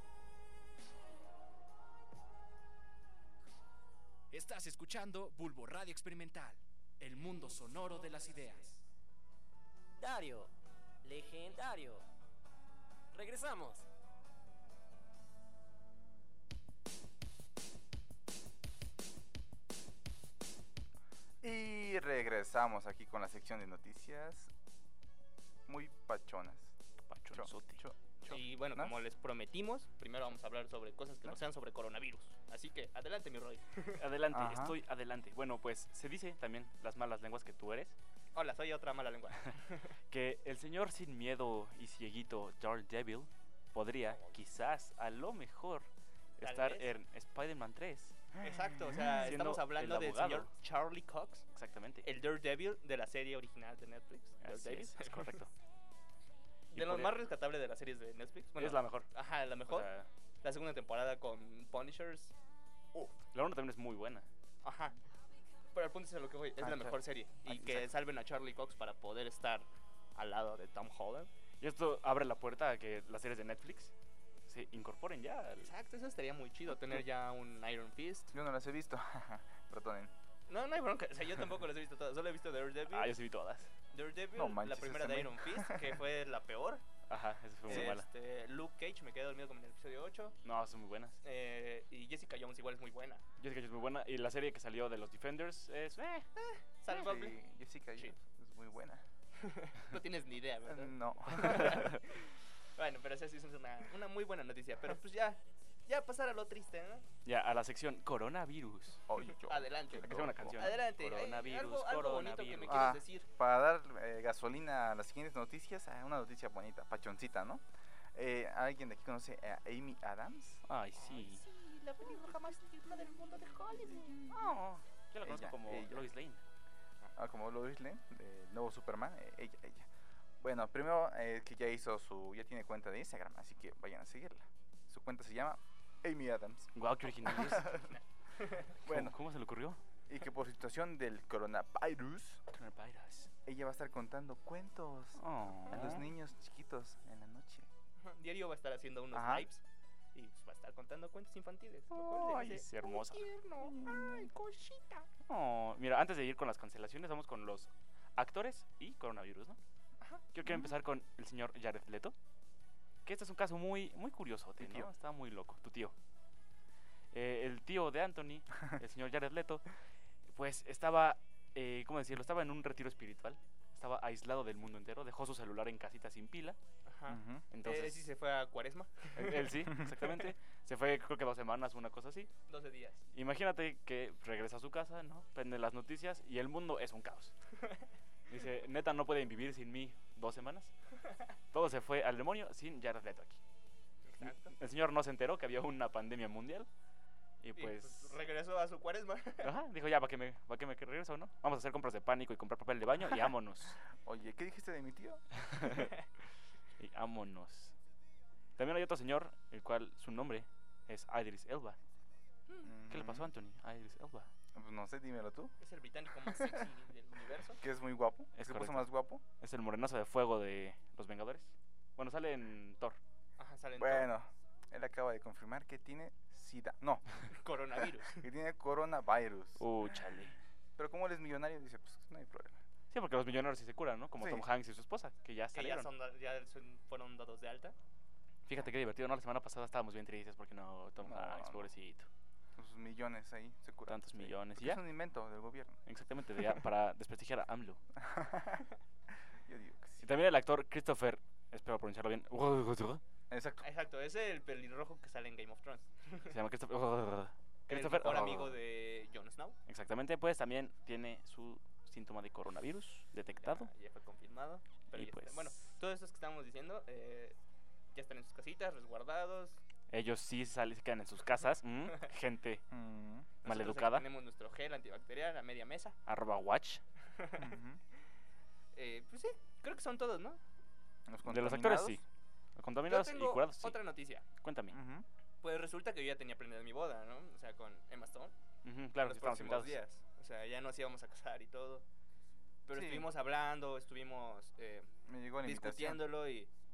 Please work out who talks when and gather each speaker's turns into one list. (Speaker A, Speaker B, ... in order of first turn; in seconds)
Speaker A: 4.3-8.9
Speaker B: 10.0-10.5, 11.0-12.0, 13.1-13.9
Speaker C: 21.4-24.5, 25.7-26.8, 27.3-29.0, 34.3-34.8, 66.6-67.0, 78.3-80.1, 84.3-86.0, 87.7-88.0, 96.9-99.0, 100.7-101.9, 109.1-110.8, 112.7-117.6, 118.1-120.6, 125.2-126.1, 127.2-137.9, 138.8-139.2, 140.1-142.4, 143.5-147.7, 149.1-149.5, 152.3-152.6, 153.6-154.3, 160.4-160.7, 164.6-164.9, 177.1-177.5, 204.0-205.2, 212.7-213.3, 214.5-215.5, 217.6-219.2, 223.8-227.3, 228.1-229.7, 230.8-232.6, 234.2-234.4, 241.0-241.7, 242.6-245.8, 248.0-248.7, 249.5-250.0, 253.3-253.6, 272.7-273.3, 277.4-277.8, 281.1-282.0, 284.7-285.1, 292.7-293.1, 295.1-296.1
Speaker D: 27.0-28.4, 34.0-38.0, 40.1-48.4, 49.0-50.5, 51.5-52.1, 54.4-55.5, 56.7-57.3, 58.6-60.1, 63.3-64.3, 67.5-67.9, 71.6-73.9, 74.5-75.7, 82.9-83.7, 87.1-88.1, 90.4-91.2, 93.4-96.3, 101.3-102.0, 107.2-109.1, 109.9-112.9, 120.7-121.4, 124.3-126.4, 136.8-137.9, 138.9-139.8, 142.5-143.3, 145.2-146.1, 151.9-153.3, 155.3-159.6, 160.3-162.2, 163.1-165.9, 167.1-169.7, 170.3-176.6, 177.5-178.1, 179.2-182.3, 183.1-187.3, 188.3-190.7, 191.5-193.4, 194.2-196.7, 197.4-198.2, 199.4-203.8, 205.3-205.9, 206.8-207.8, 208.6-211.8, 212.9-214.3, 218.4-223.0, 229.6-230.4, 232.9-235.9, 238.5-242.1, 243.9-244.8, 245.9-247.8, 250.0-253.0, 256.3-258.6, 259.7-263.7, 264.9-265.5, 269.9-272.6, 273.4-274.1, 276.1-276.8, 281.3-282.0, 282.6-283.8, 284.4-284.8, 288.6-289.8
Speaker E: 28.3-34.0, 38.4-39.9, 46.4-46.9, 48.4-51.5, 52.0-55.4, 56.7-59.9, 60.4-62.3, 64.6-65.0, 65.7-71.3, 75.6-78.3, 80.5-83.1, 83.9-86.8, 87.7-90.4, 91.2-93.2, 96.4-97.4, 99.4-107.1, 109.5-113.3, 121.0-124.3, 137.9-138.7, 148.0-149.6, 150.2-155.1, 176.9-179.5, 182.5-183.0, 194.1-194.5, 197.6-199.5, 215.6-217.6, 223.4-224.1, 227.3-228.2, 235.5-237.8, 253.6-256.3, 257.7-259.6, 263.4-267.4, 267.9-269.6, 273.4-276.0, 277.2-277.5, 278.8-280.4, 282.9-284.2, 285.4-288.3, 289.0-291.9, 292.7-294.9, 295.4-296.5